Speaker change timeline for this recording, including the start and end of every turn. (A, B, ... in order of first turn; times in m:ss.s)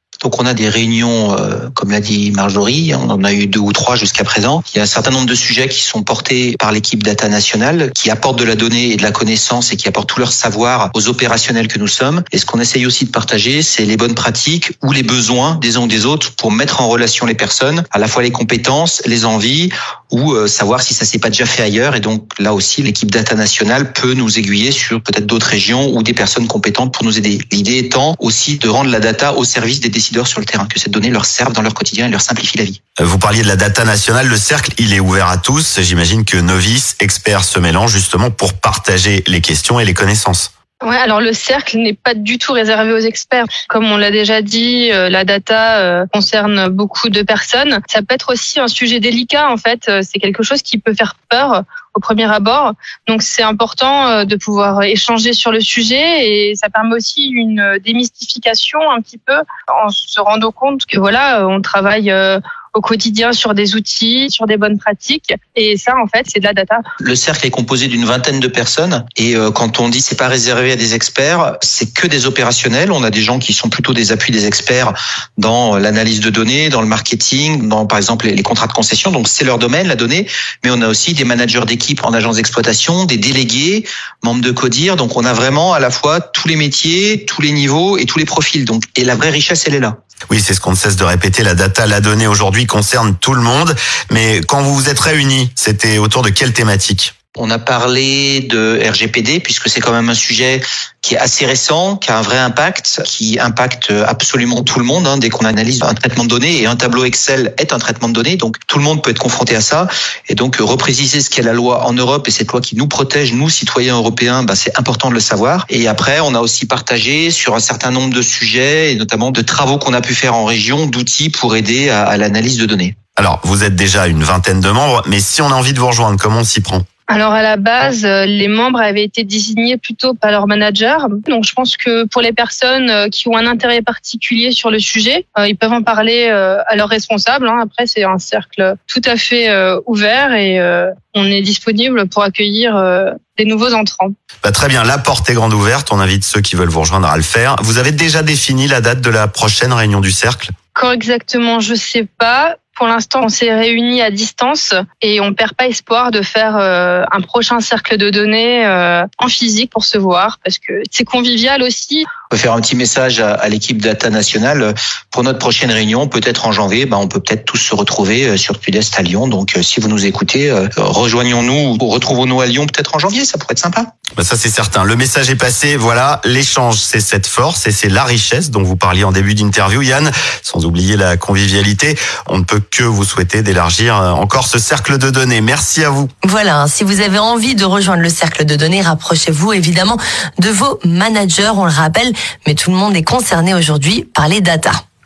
0:00.2-0:32.8 A
0:33.0-0:40.5 B
0:40.8-1:06.8 C
1:07.0-1:30.0 A
1:30.3-1:37.1 B
1:37.4-2:02.9 A
2:03.2-2:06.8 B
2:07.1-2:24.1 C
2:24.4-2:30.5 B
2:30.7-2:42.1 C
2:42.3-2:53.9 A
2:54.2-3:06.1 B
3:06.2-3:14.8 D